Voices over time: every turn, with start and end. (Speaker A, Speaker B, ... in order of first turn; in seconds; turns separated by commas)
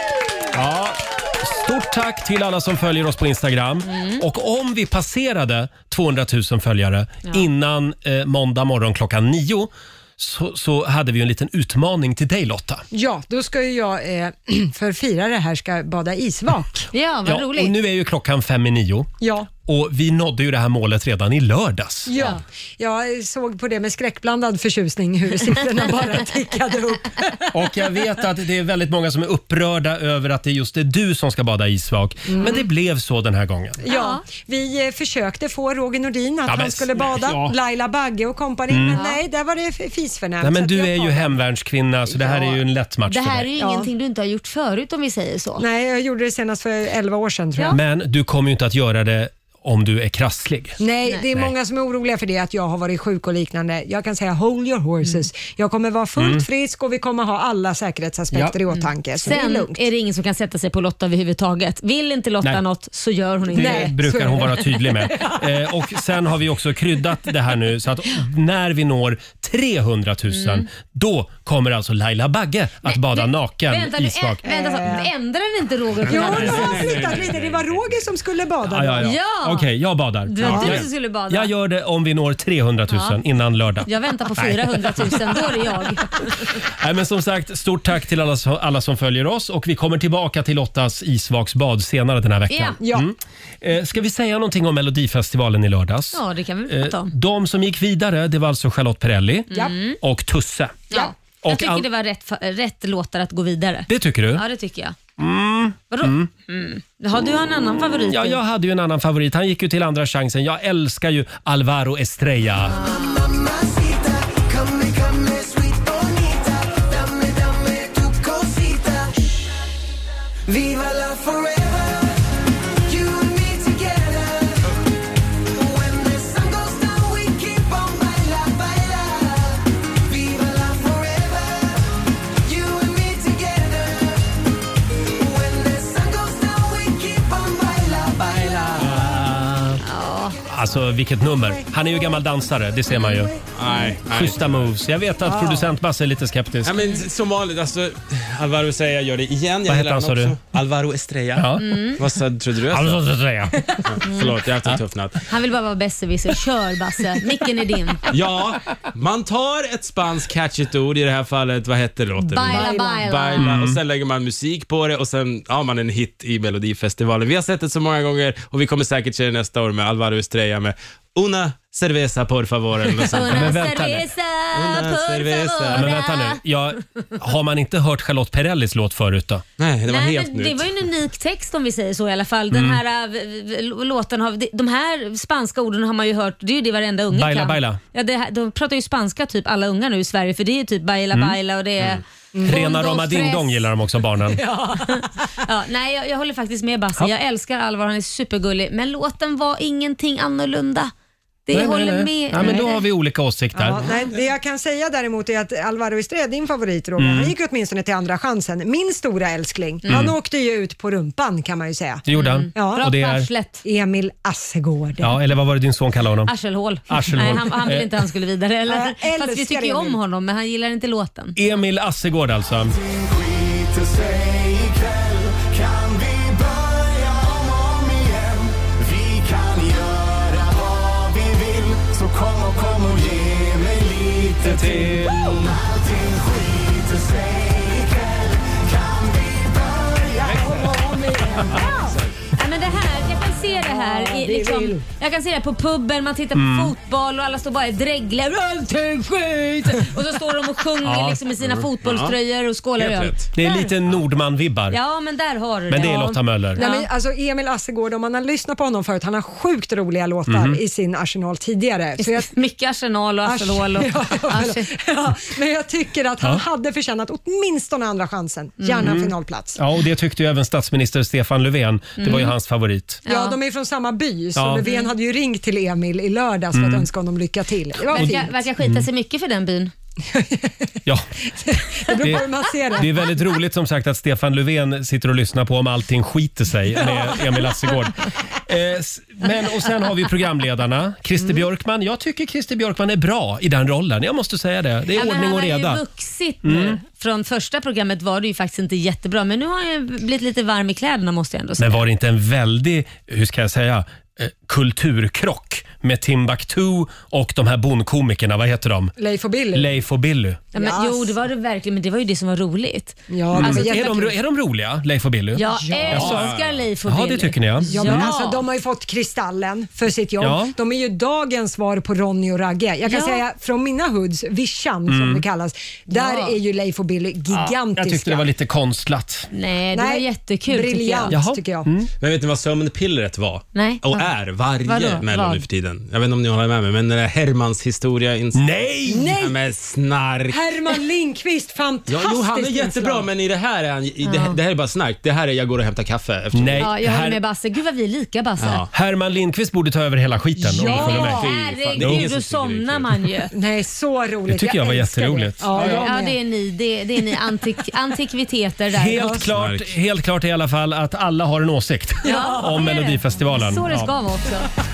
Speaker A: 0.5-12.8, Speaker B: 3.8-4.2, Speaker C: 12.9-16.9, Speaker B: 16.9-17.7, Speaker A: 17.2-19.1, Speaker C: 19.2-19.5, Speaker A: 19.6-22.3, Speaker C: 22.1-27.5, Speaker A: 27.5-33.8, Speaker C: 32.3-32.6, Speaker C: 33.8-41.4, Speaker B: 33.9-34.2, Speaker A: 36.5-37.5, Speaker A: 38.7-39.0, Speaker B: 38.9-39.2, Speaker A: 40.4-43.5, Speaker C: 42.1-42.6, Speaker B: 43.1-45.6, Speaker C: 43.6-43.9, Speaker C: 45.6-47.8, Speaker A: 47.7-50.8, Speaker C: 50.8-59.8, Speaker A: 56.2-56.4, Speaker B: 58.7-63.9, Speaker A: 63.5-74.4, Speaker C: 63.5-65.4, Speaker B: 70.3-70.7, Speaker B: 72.8-77.2, Speaker C: 74.4-75.1, Speaker D: 76.0-78.1, Speaker C: 76.1-79.1, Speaker A: 78.7-85.6, Speaker B: 79.0-79.7, Speaker B: 80.2-81.5, Speaker D: 80.5-80.8, Speaker B: 82.9-83.2, Speaker B: 83.8-86.5, Speaker A: 86.6-100.9, Speaker B: 92.5-92.8, Speaker C: 92.8-93.1, Speaker B: 96.1-97.1, Speaker B: 99.5-100.0, Speaker B: 100.9-105.0, Speaker A: 101.4-101.8, Speaker A: 103.9-104.4, Speaker A: 105.2-106.3, Speaker B: 105.9-108.4, Speaker A: 108.1-112.7, Speaker E: 112.8-119.5, Speaker B: 112.8-113.1, Speaker E: 120.5-122.1, Speaker E: 122.9-124.7, Speaker E: 125.5-131.8, Speaker E: 132.4-134.3, Speaker E: 135.2-139.1, Speaker A: 138.8-139.8, Speaker B: 139.8-140.4, Speaker A: 140.5-143.3, Speaker D: 143.6-144.7, Speaker A: 144.1-146.8, Speaker C: 145.2-145.7, Speaker D: 146.6-153.0, Speaker A: 149.7-150.4, Speaker A: 151.3-153.9, Speaker B: 151.6-152.0, Speaker D: 153.8-155.2, Speaker B: 154.0-154.3, Speaker B: 155.3-158.0, Speaker D: 158.1-173.6, Speaker B: 162.2-163.4, Speaker C: 162.5-163.0, Speaker A: 163.4-163.8, Speaker B: 173.1-176.4, Speaker A: 173.2-174.1, Speaker D: 174.5-175.9, Speaker A: 175.7-179.4, Speaker D: 179.6-180.7, Speaker B: 179.9-193.7, Speaker A: 182.5-182.8, Speaker A: 187.1-187.8, Speaker A: 192.4-194.4, Speaker C: 194.5-195.0, Speaker B: 194.7-200.9, Speaker B: 201.5-202.8, Speaker A: 201.5-203.8, Speaker C: 202.4-202.6, Speaker C: 203.5-212.8, Speaker A: 207.0-207.3, Speaker A: 209.9-210.1, Speaker A: 212.1-213.3, Speaker B: 212.1-213.6, Speaker C: 213.6-215.2, Speaker A: 215.0-216.3, Speaker B: 216.3-221.3, Speaker A: 216.9-217.9, Speaker C: 218.7-220.0, Speaker A: 221.3-222.7, Speaker E: 222.7-241.9, Speaker A: 234.7-235.2, Speaker D: 234.8-235.2, Speaker C: 241.2-241.9, Speaker B: 242.3-253.7, Speaker C: 243.6-244.8, Speaker A: 246.3-246.7, Speaker A: 250.8-251.2, Speaker D: 251.4-252.1, Speaker D: 252.8-253.2, Speaker A: 253.3-254.8, Speaker B: 254.7-256.9, Speaker A: 255.7-256.6, Speaker C: 256.6-262.3, Speaker A: 260.3-260.6, Speaker B: 262.0-264.7, Speaker C: 263.2-269.6, Speaker B: 268.6-268.9, Speaker A: 268.8-273.0, Speaker B: 272.0-272.3, Speaker B: 273.1-273.4, Speaker C: 273.1-278.3, Speaker A: 274.3-274.7, Speaker B: 274.6-274.9, Speaker A: 276.5-276.9, Speaker B: 277.9-279.7, Speaker A: 277.9-278.9, Speaker C: 280.1-280.7, Speaker C: 281.4-282.9, Speaker A: 282.0-295.8, Speaker B: 294.9-301.8, Speaker A: 296.4-296.8, Speaker A: 301.6-308.9, Speaker C: 309.0-309.7, Speaker A: 309.5-310.4, Speaker B: 310.5-314.0, Speaker C: 310.5-311.1, Speaker C: 313.1-314.1, Speaker A: 313.3-316.3, Speaker B: 315.3-318.4, Speaker C: 315.5-316.2, Speaker D: 315.9-316.6, Speaker A: 316.8-318.1, Speaker C: 317.7-328.3, Speaker A: 320.2-320.6, Speaker B: 322.9-323.2, Speaker A: 324.9-325.2, Speaker B: 325.9-326.3, Speaker A: 327.7-329.3, Speaker B: 329.3-331.1, Speaker C: 329.7-331.7, Speaker A: 331.1-331.9, Speaker D: 332.0-340.4, Speaker B: 333.5-334.0, Speaker B: 334.6-335.4, Speaker A: 338.3-339.1, Speaker C: 338.9-339.4, Speaker C: 340.3-343.1, Speaker D: 341.9-346.7, Speaker B: 344.0-344.3, Speaker A: 346.3-347.2, Speaker B: 346.6-348.6, Speaker D: 348.4-348.7, Speaker A: 348.7-352.1, Speaker C: 350.4-351.3, Speaker D: 350.6-353.0, Speaker B: 350.8-353.3, Speaker C: 353.3-356.1, Speaker A: 354.3-355.9, Speaker B: 355.5-359.1, Speaker A: 358.7-363.9, Speaker C: 358.9-359.3, Speaker D: 359.3-359.7, Speaker B: 362.0-364.5, Speaker C: 362.1-362.4